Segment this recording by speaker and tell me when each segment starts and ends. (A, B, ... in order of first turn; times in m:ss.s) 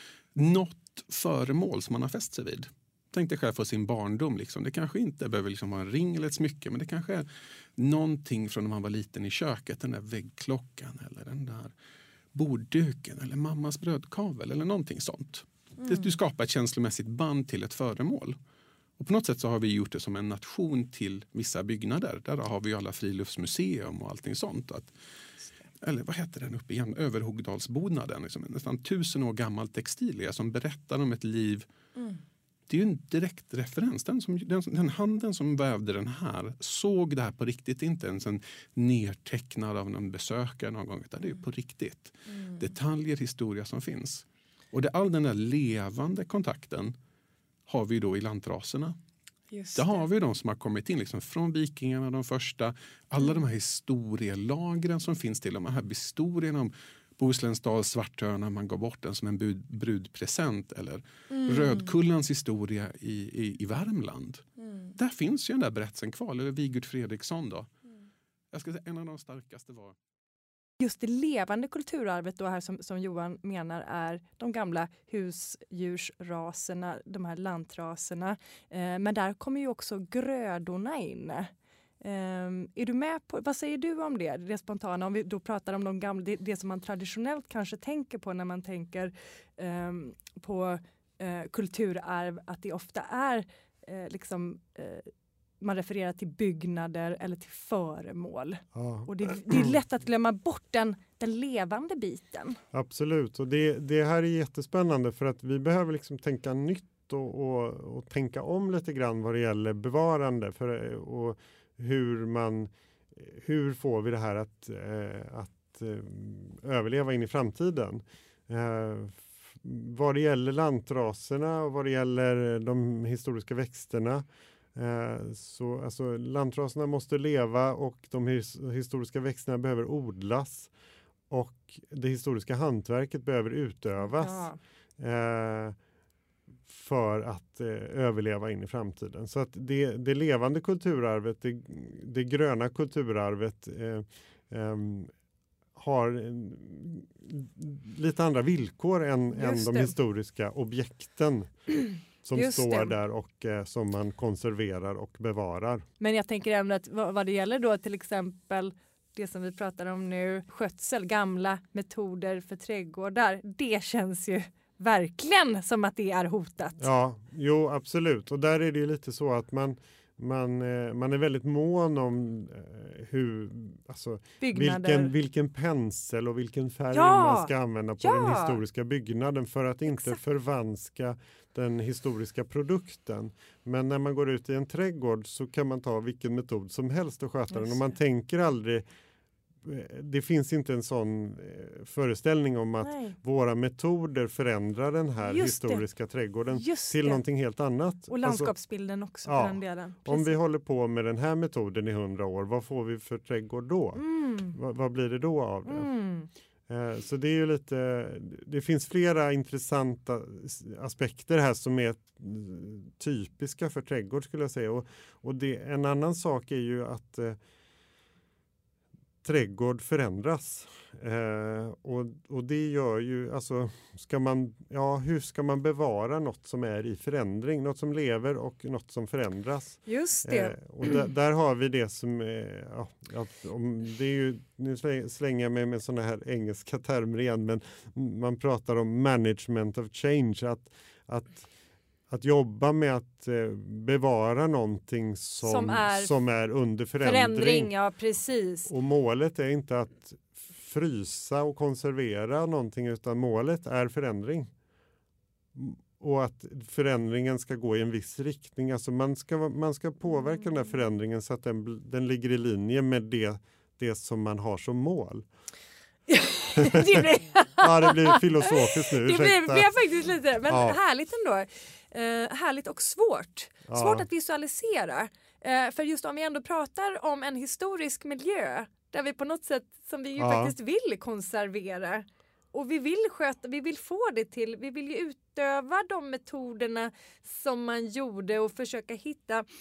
0:00.3-0:11.7 A
0:12.3-0:18.4 A
0:19.0-0:24.9 A
0:25.8-0:31.7 A
0:32.7-0:46.9 A
0:47.7-0:49.0 A
0:49.5-0:50.0 B
0:49.7-1:07.7 A
1:01.3-1:01.7 B
1:08.5-1:10.0 A
1:10.8-1:42.6 B
1:38.7-1:39.7 C
1:42.7-2:10.7 C
2:11.3-2:15.7 C
2:14.0-2:14.6 B
2:16.7-2:25.1 C
2:25.8-2:31.5 C
2:29.3-2:29.9 B
2:32.2-2:35.8 C
2:32.4-2:33.0 B
2:36.0-2:46.9 B
2:46.8-3:08.8 C
2:54.4-2:55.1 B
2:56.9-2:58.6 B
2:59.9-3:00.2 B
3:07.5-3:07.9 B
3:09.6-3:18.5 C
3:12.8-3:13.2 B
3:15.3-3:15.8 B
3:16.5-3:17.2 B
3:18.1-3:20.4 B
3:19.2-3:25.9 C
3:24.0-3:24.6 B
3:25.6-3:26.3 B
3:26.7-3:37.4 C
3:39.2-4:01.5 C
3:49.8-3:50.6 B
4:02.1-4:07.7 C
4:05.4-4:06.1 B
4:07.0-4:08.7 B
4:08.7-4:14.5 C
4:15.5-4:25.2 C
4:26.1-4:49.4 B
4:26.6-4:29.7 C
4:30.5-4:30.8 C
4:33.7-4:34.0 C
4:40.2-4:40.5 C